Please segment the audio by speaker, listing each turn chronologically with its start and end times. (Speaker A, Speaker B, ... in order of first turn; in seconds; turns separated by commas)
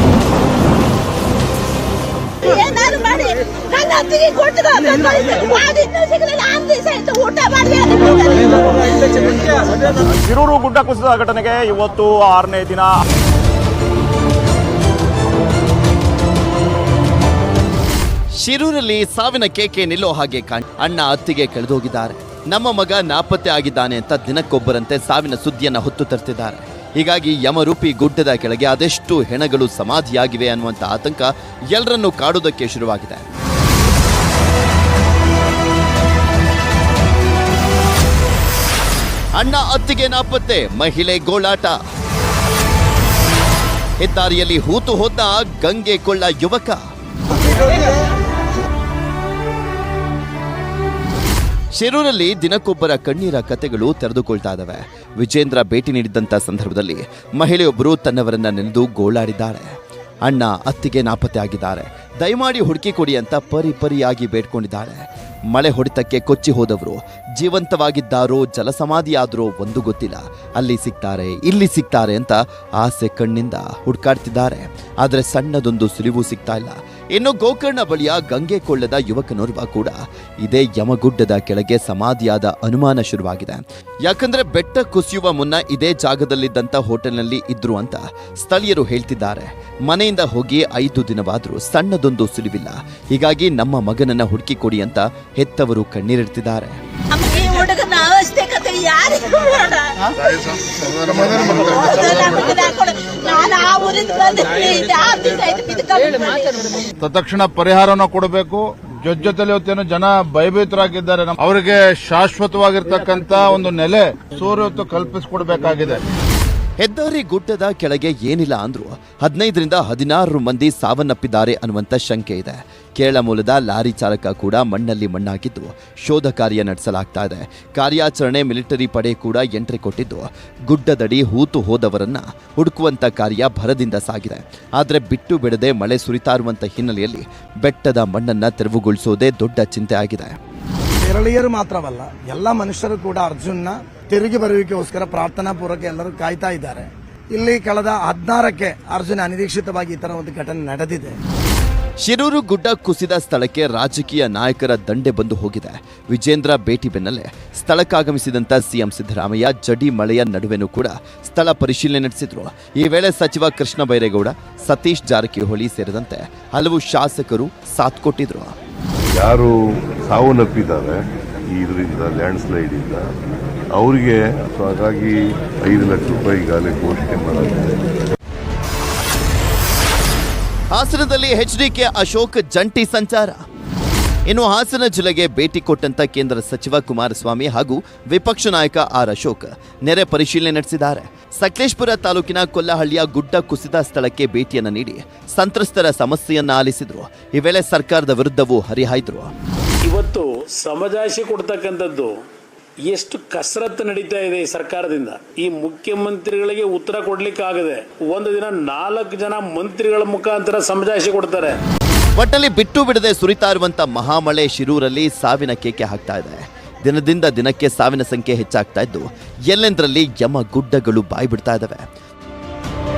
Speaker A: 2.4-8.5, Speaker B: 10.1-12.9, Speaker C: 18.4-33.3, Speaker C: 39.4-41.8, Speaker C: 44.0-46.8, Speaker C: 51.7-96.8, Speaker A: 97.1-99.9, Speaker D: 100.9-102.3, Speaker A: 101.4-106.8, Speaker D: 107.0-116.0, Speaker C: 116.8-140.4, Speaker E: 141.0-151.2, Speaker C: 152.0-168.5, Speaker F: 169.1-173.1, Speaker F: 173.7-177.8, Speaker C: 180.7-183.4, Speaker C: 184.3-199.3, Speaker G: 199.8-202.1, Speaker G: 202.9-211.6, Speaker C: 212.2-221.8